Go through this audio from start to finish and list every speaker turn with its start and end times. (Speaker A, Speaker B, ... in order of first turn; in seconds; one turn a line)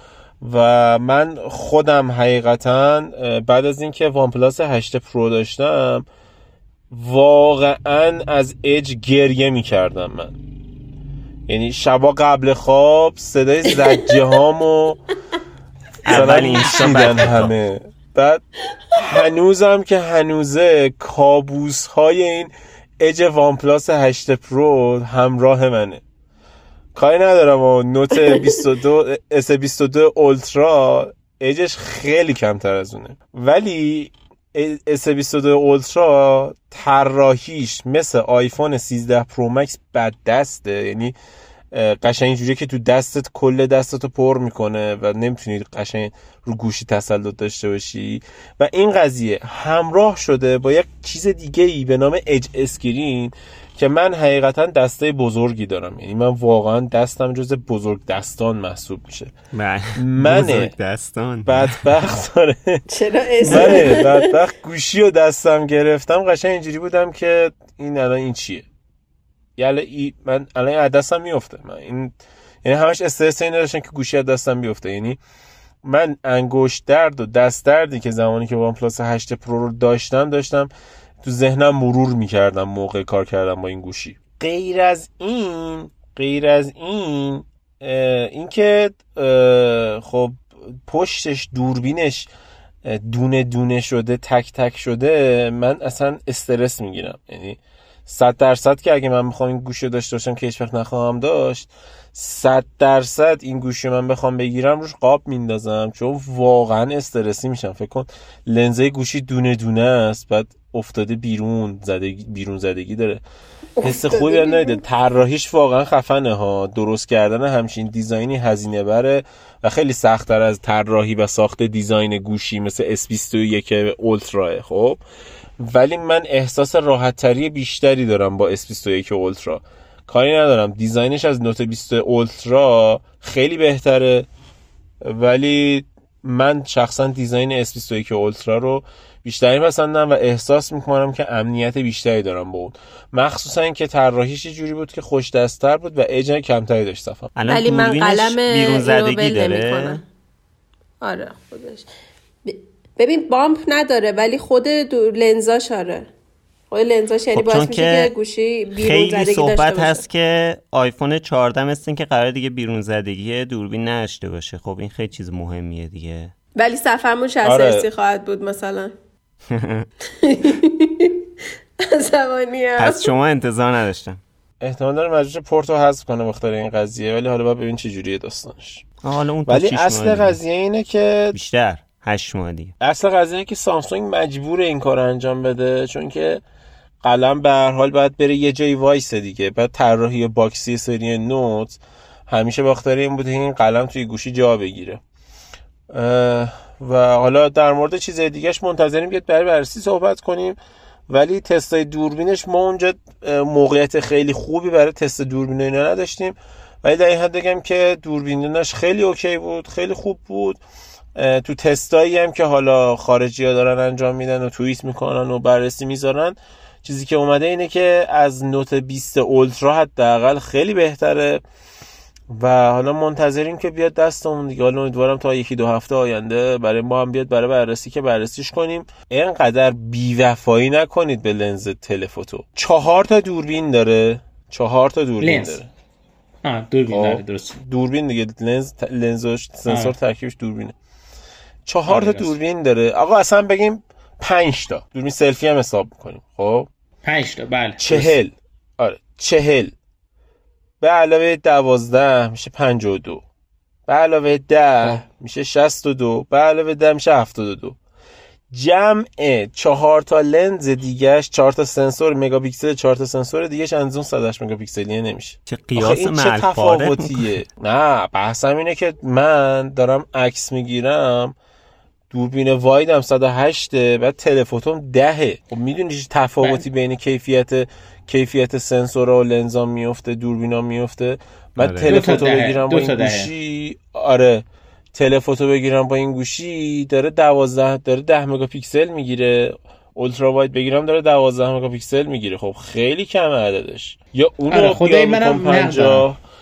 Speaker A: 0.4-6.1
Speaker A: 6.9-10.4
Speaker A: 11.5-15.0
Speaker B: 16.1-17.5
Speaker A: 16.1-26.0
Speaker A: 26.9-41.1
Speaker A: 41.7-59.3
Speaker B: 59.5-61.8
Speaker A: 60.0-60.7
Speaker A: 61.5-62.8
Speaker C: 62.9-64.3
Speaker A: 63.5-68.7
Speaker A: 69.6-72.1
Speaker A: 72.6-75.2
Speaker A: 75.8-80.7
Speaker A: 81.2-92.3
Speaker A: 92.8-113.2
Speaker C: 113.8-114.8
Speaker A: 113.8-125.0
Speaker A: 125.6-134.3
Speaker A: 135.0-147.3
Speaker B: 147.4-150.0
Speaker C: 147.5-150.0
Speaker C: 151.0-151.9
Speaker C: 152.5-156.1
Speaker C: 156.7-160.0
Speaker B: 157.3-158.1
Speaker B: 158.8-166.3
Speaker C: 166.6-168.9
Speaker A: 167.4-167.9
Speaker B: 169.5-169.9
Speaker C: 170.1-171.2
Speaker C: 171.8-173.1
Speaker B: 172.8-174.2
Speaker A: 174.6-178.8
Speaker B: 179.0-180.4
Speaker A: 179.5-181.4
Speaker B: 181.3-182.7
Speaker A: 182.8-186.4
Speaker A: 187.0-195.0
Speaker A: 195.9-200.6
Speaker A: 201.1-210.6
Speaker A: 211.2-221.4
Speaker A: 222.3-235.7
Speaker D: 235.2-235.6
Speaker D: 236.4-237.6
Speaker A: 236.9-240.7
Speaker D: 239.7-239.9
Speaker A: 241.7-246.7
Speaker D: 241.9-242.4
Speaker D: 247.0-248.2
Speaker A: 247.8-249.7
Speaker A: 250.8-253.2
Speaker A: 253.9-257.8
Speaker A: 258.5-271.4
Speaker B: 265.5-267.4
Speaker A: 272.1-284.4
Speaker B: 281.6-281.9
Speaker D: 281.8-283.3
Speaker A: 284.9-296.2
Speaker D: 294.5-296.1